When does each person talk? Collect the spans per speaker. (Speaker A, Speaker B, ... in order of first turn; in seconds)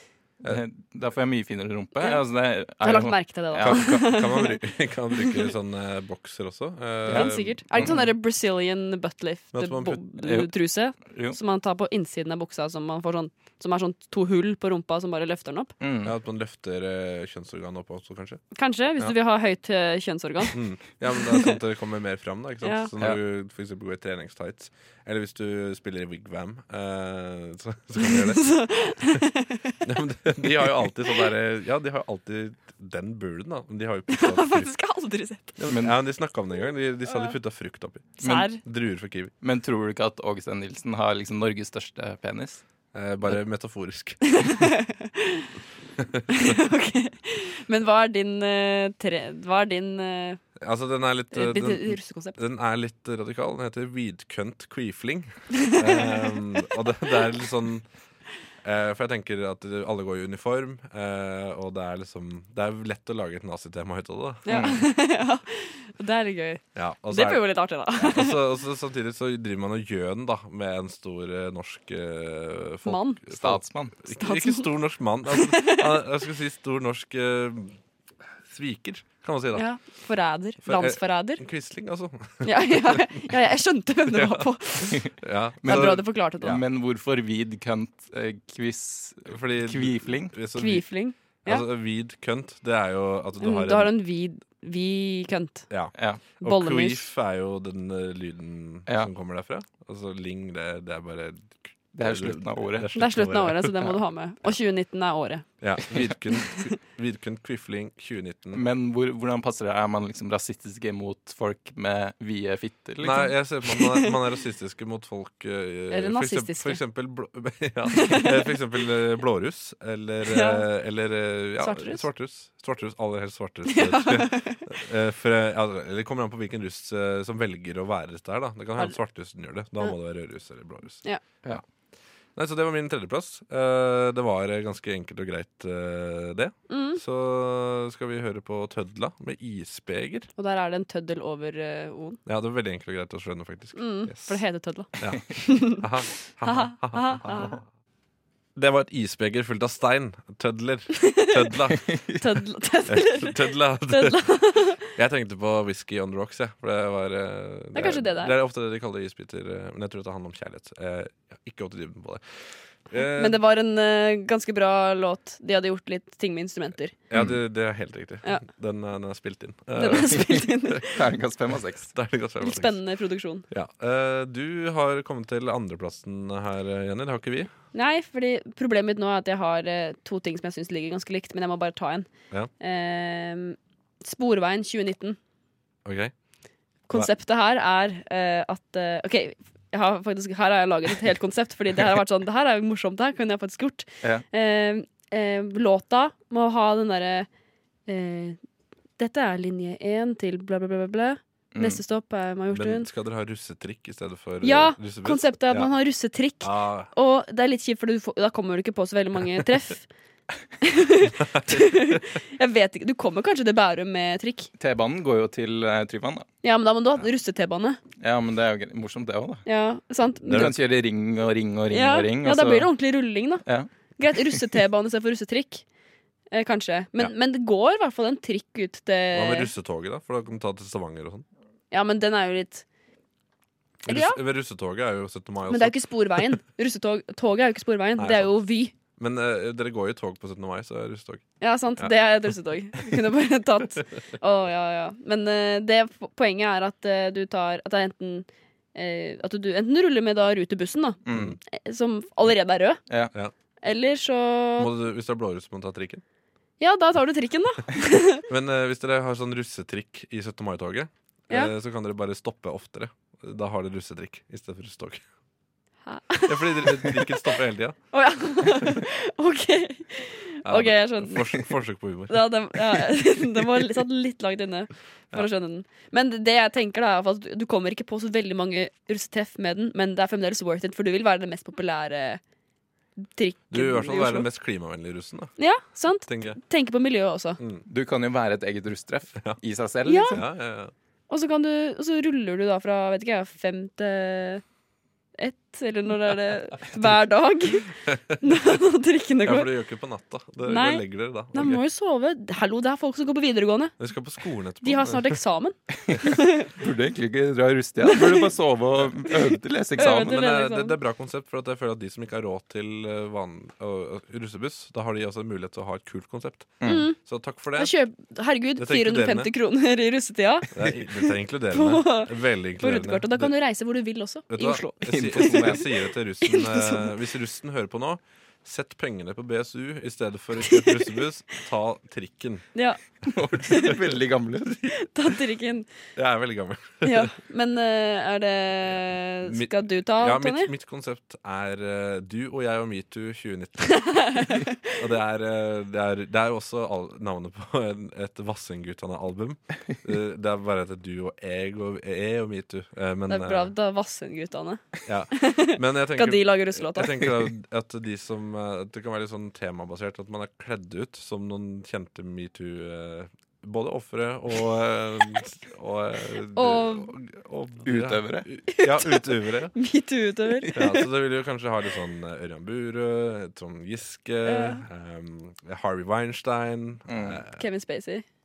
Speaker A: 0.4-4.0, 7.1-8.0, 10.2-11.4, 15.8-16.1, 35.7-36.0, 38.2-38.5, 39.4-42.6, 64.5-64.8, 73.3-73.9, 85.6-90.3, 96.0-96.2, 101.9-102.9, 108.5-113.3, 170.1-171.9, 201.5-201.8, 214.6-216.3, 218.0-219.4, 220.3-222.7, 251.1-251.4, 287.7-290.2, 305.8-310.1, 316.6-316.9, 325.0-325.6, 333.1-334.7, 367.6-368.2, 376.9-377.2
Speaker B: 2.8-4.6, 5.2-5.5, 7.1-15.7, 18.5-20.6, 22.6-22.9, 28.0-29.8, 34.1-35.6, 38.2-38.6, 44.4-45.5, 46.3-50.4, 51.3-52.4, 55.5-56.7, 64.5-68.4, 72.8-73.2, 74.1-74.7, 75.3-76.0, 79.5-81.4, 82.4-85.1, 85.6-86.6, 90.5-91.6, 93.4-95.7, 96.4-97.0, 102.9-105.5, 115.9-116.8, 117.9-118.5, 120.2-120.7, 121.6-122.1, 123.6-124.7, 136.7-137.0, 140.4-142.2, 143.8-145.8, 146.4-147.6, 151.0-151.4, 152.1-154.8, 157.7-158.3, 163.2-166.9, 169.8-171.0, 172.4-173.4, 177.7-182.1, 182.6-185.2, 186.9-197.3, 197.9-198.4, 199.0-202.9, 204.4-209.8, 210.6-214.5, 216.4-217.8, 219.4-220.5, 221.7-223.4, 224.0-225.6, 226.3-229.5, 231.7-232.6, 233.9-234.2, 235.5-238.7, 241.4-252.8, 253.6-254.7, 256.6-258.2, 265.9-267.4, 267.9-271.5, 272.1-282.2, 283.0-284.3, 285.4-287.4, 289.9-290.2, 291.1-294.4, 295.2-299.5, 300.4-303.7, 304.6-306.5, 307.9-308.3, 309.8-310.8, 316.6-316.9, 317.5-325.6, 326.2-326.9, 330.5-330.8, 332.5-332.8, 333.4-333.7, 334.7-335.7, 336.8-340.5, 343.8-344.5, 353.1-357.0, 366.3-366.9, 368.5-370.7, 374.2-374.6, 377.4-378.0
Speaker C: 3.6-8.0, 9.5-10.0, 16.0-18.4, 20.5-29.2, 29.8-34.7, 35.6-39.3, 42.9-44.6, 46.0-46.2, 50.6-57.9, 58.6-64.7, 66.7-77.8, 78.5-79.7, 80.6-83.1, 84.1-86.6, 89.3-90.9, 91.4-93.9, 95.7-103.9, 105.6-108.6, 113.0-131.6, 132.3-140.3, 142.2-144.4, 145.0-147.6, 148.6-152.0, 152.8-154.2, 154.8-163.4, 167.1-170.8, 171.9-172.8, 173.5-177.5, 185.8-186.1, 202.5-205.7, 206.4-206.9, 211.2-212.0, 220.2-220.6, 229.1-231.2, 233.8-236.3, 238.0-238.4, 238.9-241.2, 251.1-251.4, 254.6-256.0, 258.3-265.0, 266.3-267.8, 270.4-273.6, 283.5-285.3, 286.1-286.4, 287.4-287.6, 290.1-290.7, 297.9-298.2, 299.2-301.6, 303.8-305.2, 309.8-317.7, 318.6-319.3, 320.5-323.3, 324.3-332.5, 335.9-337.1, 339.2-353.5, 354.9-369.5, 370.5-377.4